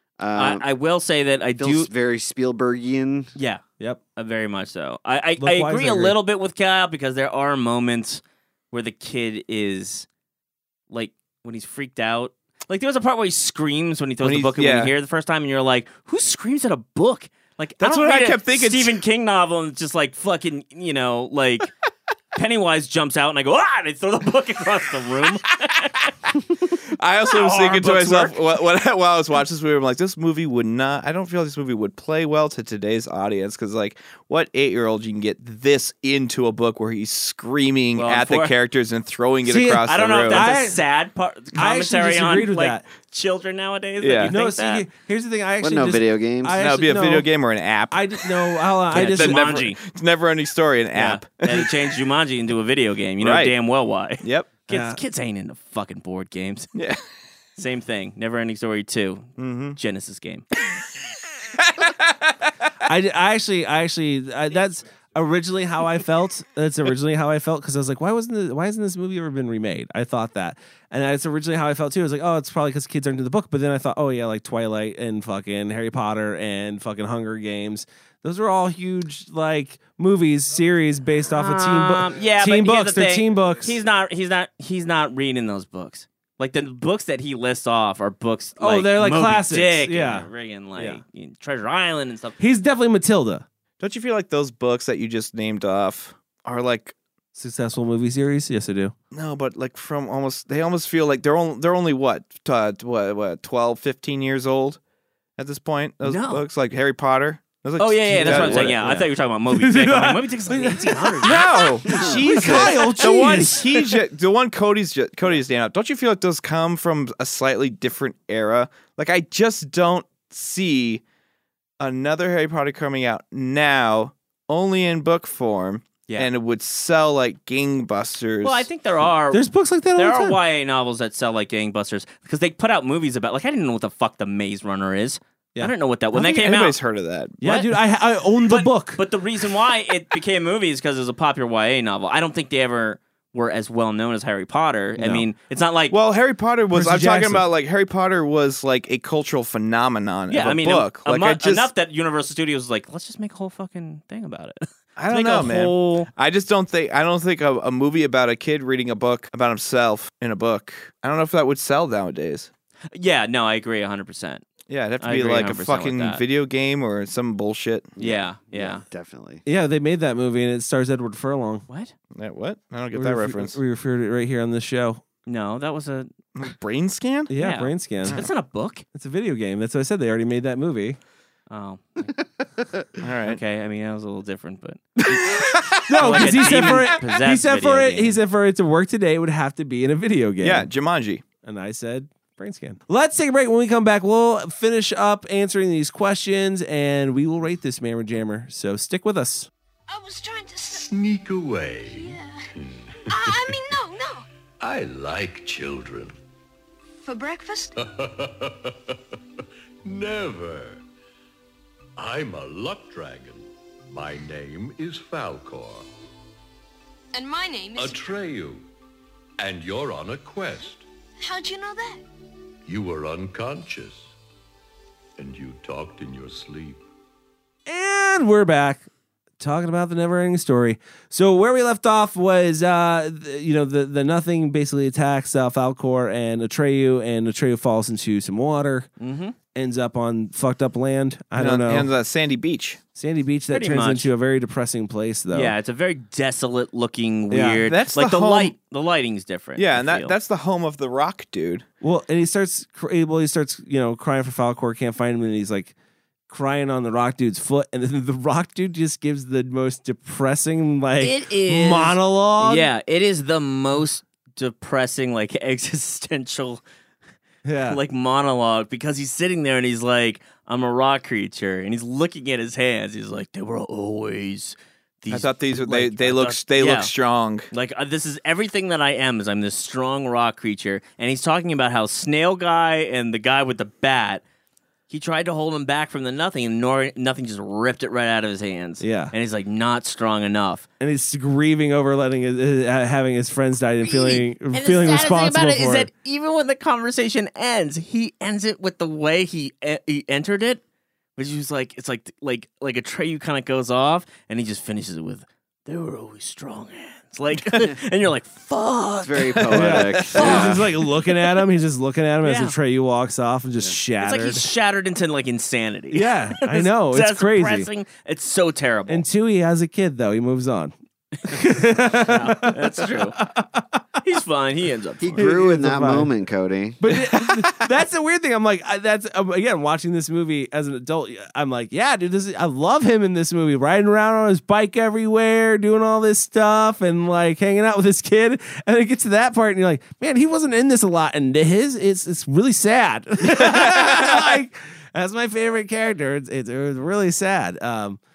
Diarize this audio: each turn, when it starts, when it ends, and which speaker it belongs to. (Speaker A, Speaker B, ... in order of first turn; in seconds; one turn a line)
Speaker A: 0.2-0.6
Speaker B: 0.4-1.9
Speaker A: 1.6-3.3
Speaker B: 3.4-3.6
Speaker B: 4.2-10.1
Speaker C: 5.4-6.2
Speaker B: 10.9-21.7
Speaker D: 14.2-14.9
Speaker D: 17.8-19.0
Speaker B: 22.4-26.4
Speaker D: 26.7-40.5
Speaker B: 27.2-28.4
Speaker B: 38.0-38.5
Speaker C: 39.5-40.8
Speaker B: 39.9-44.9
Speaker C: 41.6-42.8
Speaker D: 44.0-44.3
Speaker C: 44.2-47.3
Speaker A: 45.6-46.6
Speaker D: 46.6-48.2
Speaker C: 47.9-49.5
Speaker D: 48.9-51.7
Speaker B: 48.9-49.8
Speaker B: 50.9-56.7
Speaker D: 53.2-53.5
Speaker D: 54.2-54.5
Speaker C: 54.7-55.0
Speaker B: 57.6-60.5
Speaker D: 59.4-59.8
Speaker D: 61.6-62.3
Speaker C: 62.9-83.8
Speaker B: 81.3-92.4
Speaker C: 88.6-91.0
Speaker C: 92.4-93.5
Speaker D: 93.8-97.0
Speaker C: 97.3-98.9
Speaker D: 99.1-104.8
Speaker D: 105.4-109.0
Speaker B: 106.0-106.4
Speaker B: 107.8-112.5
Speaker C: 108.1-111.4
Speaker D: 111.2-121.0
Speaker A: 111.8-112.4
Speaker C: 112.3-113.9
Speaker D: 121.8-128.7
Speaker B: 128.4-129.4
Speaker C: 129.3-130.4
Speaker B: 129.9-136.8
Speaker D: 136.1-137.4
Speaker C: 137.4-139.0
Speaker B: 137.4-137.7
Speaker B: 138.5-146.0
Speaker C: 145.0-145.3
Speaker D: 145.9-151.7
Speaker C: 146.7-147.5
Speaker B: 150.3-156.1
Speaker D: 155.0-162.5
Speaker B: 162.9-164.4
Speaker D: 164.7-167.9
Speaker B: 165.0-166.2
Speaker A: 168.0-169.4
Speaker B: 168.0-168.8
Speaker C: 169.5-171.7
Speaker B: 171.7-171.9
Speaker D: 172.2-173.6
Speaker C: 172.9-175.0
Speaker B: 175.3-176.1
Speaker D: 176.3-177.3
Speaker C: 177.3-178.2
Speaker B: 177.4-178.8
Speaker C: 178.9-181.0
Speaker B: 181.5-182.2
Speaker D: 183.0-183.4
Speaker B: 183.3-185.0
Speaker D: 185.0-186.8
Speaker C: 185.9-190.7
Speaker B: 186.0-188.2
Speaker D: 190.4-191.2
Speaker C: 191.4-199.5
Speaker E: 199.9-200.8
Speaker F: 200.7-203.5
Speaker E: 201.9-202.4
Speaker E: 203.1-204.2
Speaker F: 204.6-206.2
Speaker E: 207.0-207.7
Speaker F: 207.8-208.9
Speaker F: 209.8-210.8
Speaker F: 212.0-215.9
Speaker E: 217.1-218.1
Speaker F: 217.8-218.6
Speaker F: 219.4-220.8
Speaker E: 221.2-222.0
Speaker F: 222.7-224.1
Speaker F: 225.2-226.8
Speaker C: 227.7-228.9
Speaker C: 229.4-238.9
Speaker B: 239.0-239.4
Speaker C: 239.5-241.9
Speaker D: 241.4-242.8
Speaker C: 242.9-245.5
Speaker B: 243.5-244.1
Speaker B: 245.3-250.2
Speaker C: 247.3-247.7
Speaker D: 247.7-248.6
Speaker D: 249.6-251.7
Speaker C: 251.8-255.7
Speaker C: 256.3-262.7
Speaker B: 261.0-266.6
Speaker C: 267.4-267.8
Speaker B: 267.7-276.9
Speaker D: 275.1-277.5
Speaker B: 277.5-284.2
Speaker B: 284.9-290.7
Speaker C: 288.8-289.1
Speaker C: 290.8-295.9
Speaker B: 293.8-300.6
Speaker B: 301.2-310.6
Speaker A: 309.0-310.7
Speaker C: 309.5-314.5
Speaker B: 312.2-312.6
Speaker B: 314.0-319.0
Speaker C: 315.9-317.7
Speaker C: 318.9-320.7
Speaker C: 321.3-323.7
Speaker B: 321.3-323.2
Speaker B: 324.0-325.3
Speaker A: 325.0-326.8
Speaker C: 325.2-326.1
Speaker C: 326.8-348.0
Speaker D: 343.4-344.2